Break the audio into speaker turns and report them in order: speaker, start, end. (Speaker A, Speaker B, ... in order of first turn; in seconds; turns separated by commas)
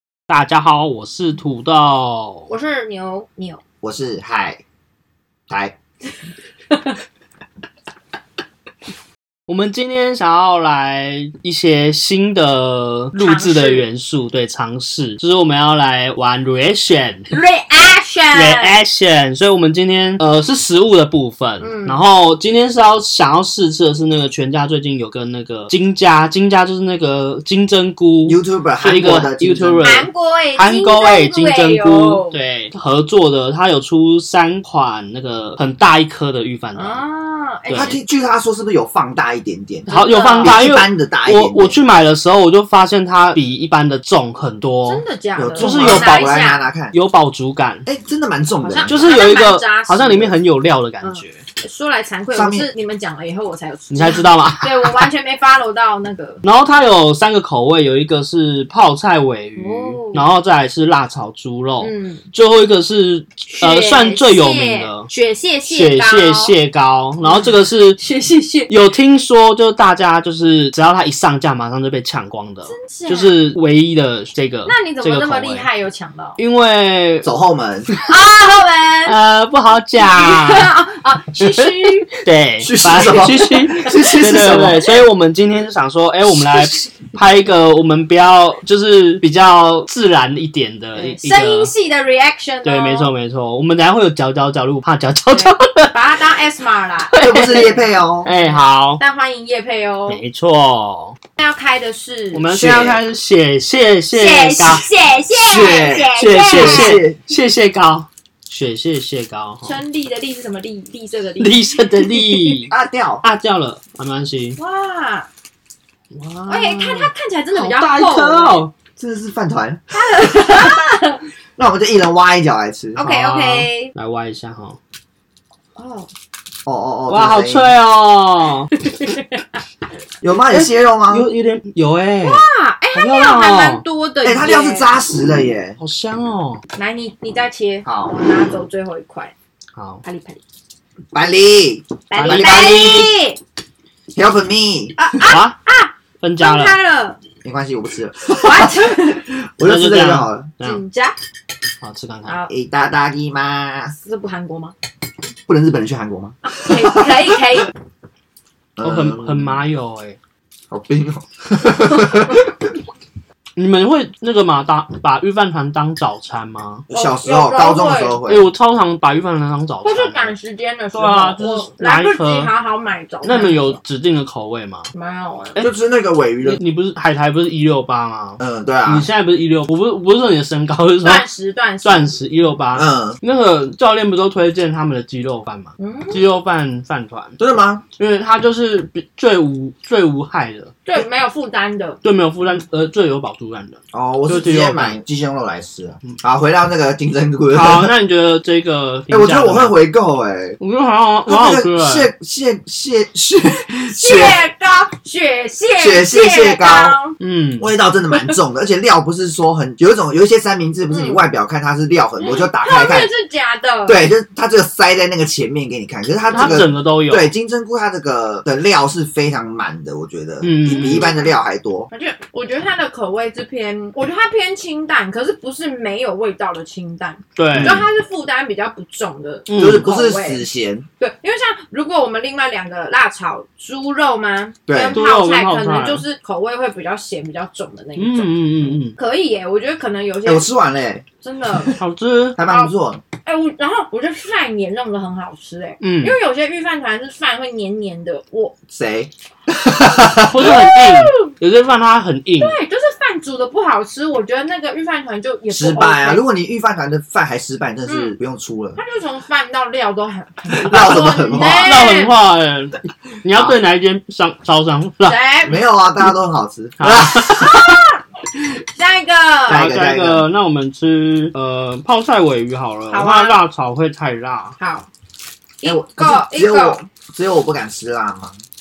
Speaker A: 0.3-2.5, Speaker B: 2.5-3.6, Speaker C: 3.8-4.6, Speaker C: 5.5-5.8, Speaker A: 9.5-17.3, Speaker B: 13.2-13.9, Speaker B: 17.3-18.8, Speaker A: 18.3-37.0, Speaker B: 21.6-22.0, Speaker C: 28.3-30.0, Speaker B: 29.8-32.4, Speaker B: 36.8-38.0, Speaker A: 37.7-38.0, Speaker C: 37.7-41.8, Speaker A: 39.9-45.0, Speaker B: 39.9-40.7, Speaker B: 44.9-46.7, Speaker C: 45.4-47.0, Speaker A: 45.6-47.9, Speaker C: 47.9-49.1, Speaker B: 48.6-50.4, Speaker A: 48.9-51.4, Speaker B: 51.0-56.4, Speaker C: 52.3-52.7, Speaker A: 53.9-55.1, Speaker A: 56.4-65.1, Speaker B: 59.6-60.3, Speaker B: 61.8-62.2, Speaker B: 63.5-66.6, Speaker A: 65.7-68.0, Speaker B: 67.2-68.7, Speaker A: 68.7-75.7, Speaker B: 72.7-73.5, Speaker B: 74.7-76.4, Speaker A: 76.4-77.3, Speaker C: 77.2-77.9, Speaker B: 78.0-79.2, Speaker A: 79.1-80.7, Speaker B: 80.0-82.2, Speaker A: 81.6-91.7, Speaker C: 82.6-84.8, Speaker B: 83.8-84.0, Speaker B: 91.0-93.1, Speaker A: 92.6-96.0, Speaker B: 95.3-100.2, Speaker A: 97.1-97.7, Speaker C: 97.2-98.3, Speaker A: 98.2-99.0, Speaker A: 100.1-101.2, Speaker B: 101.4-102.5, Speaker A: 102.3-104.9, Speaker C: 102.5-103.0, Speaker B: 104.1-107.0, Speaker C: 105.3-107.2, Speaker A: 106.4-109.8, Speaker B: 109.6-112.6, Speaker A: 111.4-114.6, Speaker C: 112.7-113.2, Speaker B: 114.6-115.3, Speaker A: 116.1-118.7, Speaker B: 116.5-118.6, Speaker C: 119.0-120.4, Speaker B: 119.9-121.2, Speaker C: 121.6-123.0, Speaker B: 123.0-123.9, Speaker A: 123.0-124.8, Speaker B: 125.8-126.1, Speaker C: 126.7-127.8, Speaker A: 127.1-128.7, Speaker B: 128.8-129.2, Speaker C: 130.2-131.3, Speaker A: 130.5-133.8, Speaker B: 132.2-134.9, Speaker C: 134.2-135.8, Speaker A: 135.8-136.6, Speaker B: 136.8-139.3, Speaker C: 137.8-138.2, Speaker A: 139.8-140.0, Speaker B: 140.0-140.4, Speaker C: 141.1-143.1, Speaker B: 142.1-143.4, Speaker A: 142.2-143.1, Speaker C: 144.2-145.0, Speaker B: 145.0-147.2, Speaker A: 145.2-145.6, Speaker A: 146.2-146.8, Speaker C: 147.4-150.5, Speaker B: 148.3-149.2, Speaker A: 149.6-150.8, Speaker B: 150.6-151.2, Speaker A: 151.8-152.4, Speaker C: 152.5-153.9, Speaker B: 154.0-154.7, Speaker C: 155.5-157.1, Speaker B: 156.4-157.7, Speaker C: 158.8-159.6, Speaker A: 158.8-160.2, Speaker C: 160.7-162.5, Speaker A: 163.6-166.8, Speaker C: 166.9-168.5, Speaker B: 166.9-168.2, Speaker A: 168.3-170.3, Speaker B: 169.8-173.8, Speaker A: 170.9-172.5, Speaker A: 173.2-174.9, Speaker B: 174.9-175.6, Speaker C: 175.6-176.6, Speaker A: 176.4-181.2, Speaker C: 178.4-179.1, Speaker B: 181.0-182.1, Speaker A: 181.8-187.4, Speaker C: 182.7-183.2, Speaker B: 185.8-186.3, Speaker C: 187.4-187.8, Speaker A: 188.0-190.7, Speaker B: 190.8-192.0, Speaker A: 192.0-195.0, Speaker C: 193.9-197.9, Speaker A: 197.5-199.8, Speaker C: 199.1-200.6, Speaker A: 200.6-202.1, Speaker C: 201.3-204.4, Speaker B: 203.9-207.2, Speaker C: 205.8-207.0, Speaker A: 207.2-208.3, Speaker C: 207.6-213.1, Speaker B: 210.9-211.3, Speaker B: 212.2-214.0, Speaker C: 213.9-221.9, Speaker A: 216.3-217.3, Speaker B: 216.3-216.6, Speaker A: 220.4-221.1, Speaker B: 220.6-221.4, Speaker B: 221.9-230.5, Speaker A: 227.4-227.8, Speaker C: 227.5-227.8, Speaker A: 229.5-229.9, Speaker C: 229.6-230.9, Speaker B: 231.0-240.5, Speaker C: 234.7-235.0, Speaker A: 234.9-236.0, Speaker A: 238.0-238.9, Speaker C: 240.2-241.1, Speaker B: 241.2-241.8, Speaker A: 241.8-242.4, Speaker C: 242.4-243.0, Speaker B: 242.5-248.6, Speaker A: 245.8-246.2, Speaker C: 248.7-250.4, Speaker A: 250.1-252.6, Speaker B: 250.4-251.3, Speaker B: 252.4-256.2, Speaker C: 255.5-258.8, Speaker B: 257.9-258.2, Speaker B: 258.8-262.1, Speaker C: 260.6-261.8, Speaker A: 261.3-265.2, Speaker C: 263.3-263.6, Speaker B: 265.0-265.6, Speaker C: 265.5-267.6, Speaker A: 266.8-267.4, Speaker B: 267.2-268.0, Speaker B: 268.7-269.7, Speaker C: 269.5-270.3, Speaker A: 269.5-274.6, Speaker B: 272.9-273.4, Speaker B: 274.6-274.9, Speaker B: 275.6-276.8, Speaker C: 275.6-278.4